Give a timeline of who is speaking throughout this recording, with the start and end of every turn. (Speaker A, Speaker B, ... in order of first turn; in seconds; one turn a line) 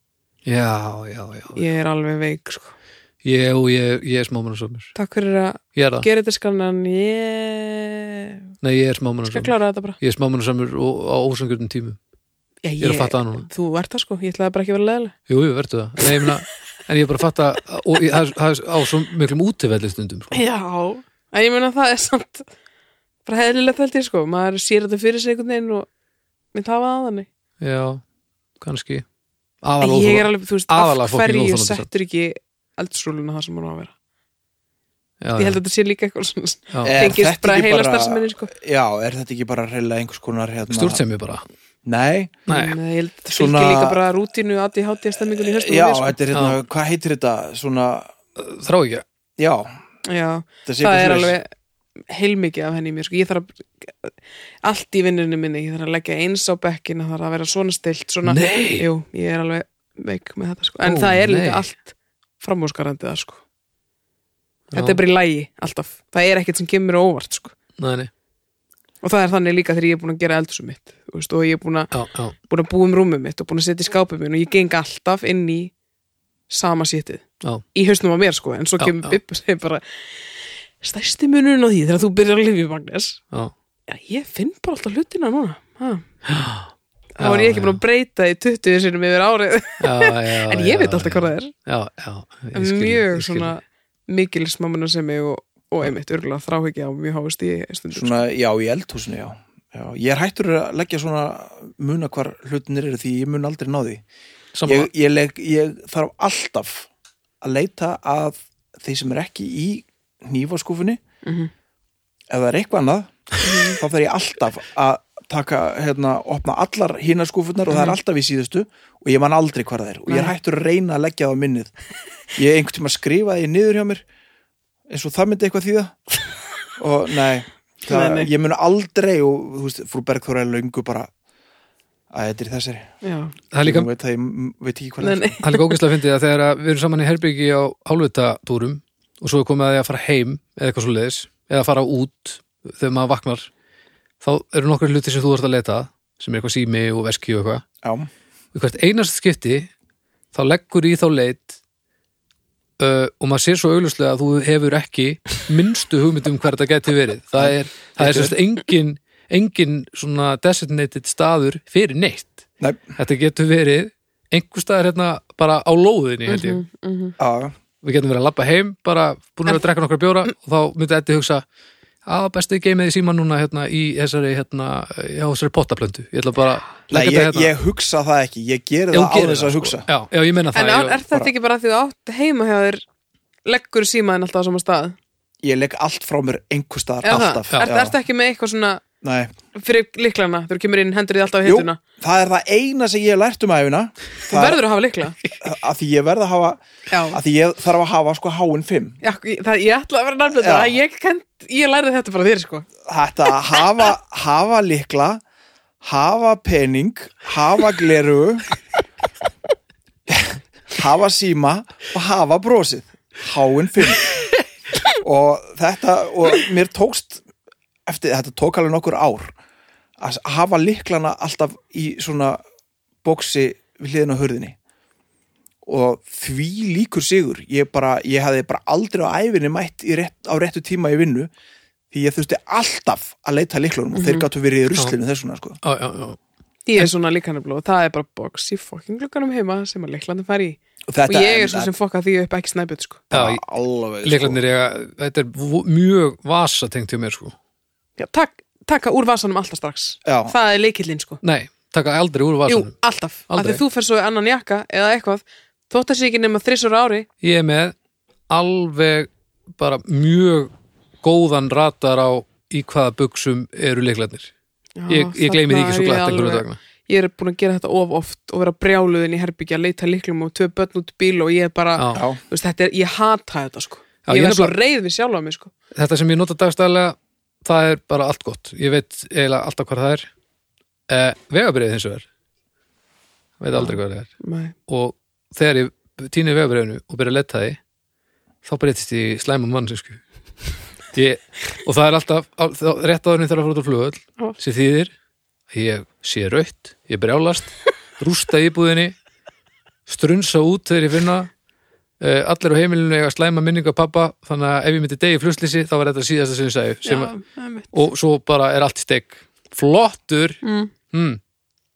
Speaker A: 0.5-1.6
Speaker B: 1.6-2.7
Speaker A: 3.2-4.9
Speaker B: 5.0-8.5
Speaker A: 5.8-6.1
Speaker A: 8.6-12.0
Speaker B: 9.3-10.0
Speaker B: 12.6-15.2
Speaker A: 12.8-13.5
Speaker A: 15.3-20.4
Speaker B: 20.3-22.5
Speaker B: 23.2-25.9
Speaker B: 26.5-27.3
Speaker A: 27.6-28.0
Speaker A: 28.6-29.1
Speaker A: 29.6-31.9
Speaker B: 29.8-33.9
Speaker A: 35.2-35.6
Speaker B: 35.4-38.5
Speaker A: 36.7-37.1
Speaker C: 36.8-41.0
Speaker A: 40.7-41.4
Speaker C: 41.9-42.4
Speaker A: 42.5-42.8
Speaker B: 42.5-46.2
Speaker C: 43.3-44.0
Speaker C: 45.2-48.1
Speaker A: 46.3-46.6
Speaker A: 48.4-49.0
Speaker C: 49.4-49.8
Speaker B: 50.0-51.5
Speaker C: 50.7-51.4
Speaker B: 52.1-63.4
Speaker A: 58.2-58.9
Speaker A: 60.8-61.7
Speaker A: 64.7-65.0
Speaker B: 64.7-67.5
Speaker A: 67.8-68.1
Speaker B: 69.0-71.9
Speaker A: 71.9-72.3
Speaker B: 72.4-75.7
Speaker B: 76.5-83.2
Speaker A: 78.8-79.2
Speaker B: 83.9-86.0
Speaker A: 86.3-87.8
Speaker B: 87.2-91.5
Speaker A: 89.8-93.5
Speaker B: 92.5-98.2
Speaker C: 97.9-104.0
Speaker A: 104.5-104.9
Speaker C: 104.7-106.9
Speaker C: 107.4-111.0
Speaker B: 111.2-111.5
Speaker C: 112.3-121.7
Speaker B: 113.4-113.8
Speaker B: 117.7-118.0
Speaker C: 122.3-124.0
Speaker C: 124.9-126.0
Speaker C: 126.8-131.1
Speaker B: 127.9-128.3
Speaker C: 132.1-132.9
Speaker B: 133.0-133.3
Speaker A: 133.5-133.9
Speaker C: 133.6-135.4
Speaker B: 135.0-135.8
Speaker A: 135.4-143.5
Speaker A: 144.2-147.6
Speaker C: 147.8-148.1
Speaker A: 148.5-149.7
Speaker A: 150.3-151.6
Speaker A: 152.8-162.4
Speaker C: 157.4-158.3
Speaker C: 162.6-162.9
Speaker A: 163.0-166.6
Speaker B: 166.3-167.2
Speaker C: 167.2-167.6
Speaker A: 167.8-171.4
Speaker A: 172.1-177.5
Speaker C: 176.9-179.9
Speaker A: 178.9-181.0
Speaker B: 180.6-182.8
Speaker B: 183.5-185.0
Speaker C: 185.4-188.0
Speaker B: 187.0-188.8
Speaker C: 189.0-189.3
Speaker B: 189.5-191.8
Speaker C: 191.4-194.6
Speaker B: 194.3-195.2
Speaker C: 195.4-199.0
Speaker B: 196.9-197.2
Speaker B: 199.0-202.7
Speaker C: 200.3-200.8
Speaker C: 202.8-205.2
Speaker C: 205.8-208.5
Speaker C: 210.1-214.1
Speaker C: 215.0-217.2
Speaker C: 217.9-219.3
Speaker C: 220.0-222.4
Speaker C: 223.0-224.6
Speaker C: 225.7-231.3
Speaker C: 231.9-235.6
Speaker B: 233.9-234.3
Speaker A: 235.6-236.2
Speaker B: 236.7-243.1
Speaker C: 240.9-241.7
Speaker C: 243.1-244.4
Speaker A: 243.1-243.4
Speaker A: 244.0-247.3
Speaker B: 248.0-251.2
Speaker C: 250.1-250.3
Speaker A: 251.2-252.7
Speaker B: 252.5-257.1
Speaker A: 253.3-253.6
Speaker A: 257.2-257.8
Speaker A: 258.3-260.5
Speaker A: 261.0-264.3
Speaker B: 264.8-275.5
Speaker A: 264.9-266.6
Speaker A: 271.8-272.0
Speaker C: 271.9-272.2
Speaker A: 274.1-274.6
Speaker A: 275.7-280.1
Speaker A: 280.9-282.1
Speaker A: 283.4-284.1
Speaker B: 283.5-284.5
Speaker A: 284.7-287.6
Speaker A: 288.4-290.0
Speaker A: 290.9-294.9
Speaker A: 295.5-298.9
Speaker A: 299.9-301.3
Speaker A: 302.0-307.1
Speaker B: 306.9-307.8
Speaker A: 307.7-311.2
Speaker B: 310.4-310.7